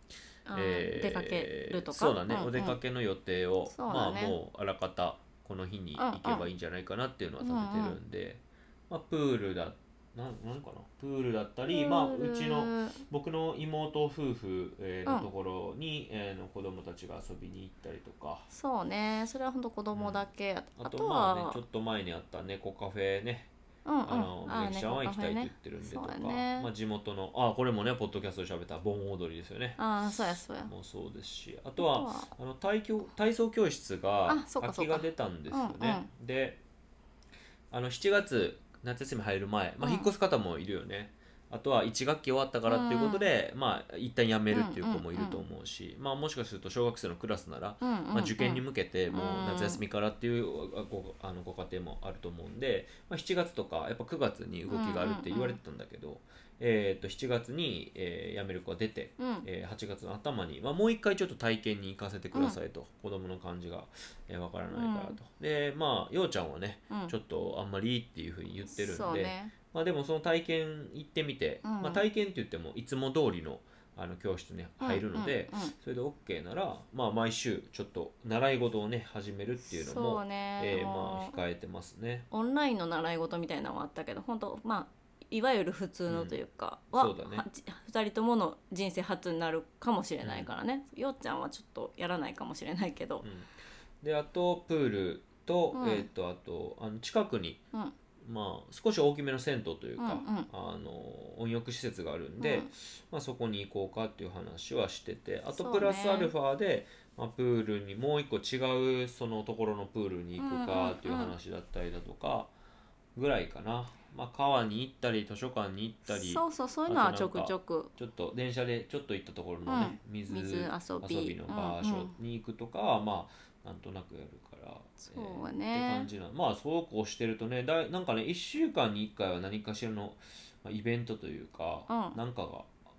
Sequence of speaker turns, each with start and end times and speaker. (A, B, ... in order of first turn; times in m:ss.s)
0:00.4-0:02.8 A
0:00.5-0:18.5 B
0:03.7-0:04.4 A
0:06.0-0:06.5 A
0:07.4-0:08.0 A
0:11.7-0:13.0 A
0:18.5-0:21.6 A
0:19.9-0:23.5 B
0:23.8-0:26.7 A
0:24.0-0:29.8 B
0:29.8-0:30.7 A
0:30.6-0:36.6 B
0:31.8-0:32.3 A
0:34.3-0:36.1 A
0:37.7-1:22.3 B
0:39.8-0:40.1 A
0:42.7-0:43.3 A
0:44.5-0:45.4 A
0:47.8-0:49.8 A
0:54.7-0:55.6 A
0:59.2-0:59.5 A
1:02.3-1:02.6 A
1:04.7-1:05.2 A
1:08.7-1:09.5 A
1:11.6-1:12.0 A
1:14.8-1:15.7 A
1:19.6-1:21.4 A
1:22.3-1:33.2 A
1:26.1-1:26.4 B
1:26.9-1:27.4 B
1:30.2-1:30.5 B
1:33.2-1:33.5 B
1:34.0-1:37.6 B
1:35.7-1:36.1 A
1:38.2-1:52.5 B
1:40.0-1:40.5 A
1:42.4-1:42.7 A
1:45.5-1:46.3 A
1:50.4-1:51.3 A
1:53.1-2:12.7 B
1:56.0-1:57.9 A
1:59.6-2:02.1 A
2:05.0-2:06.1 A
2:11.9-2:12.2 A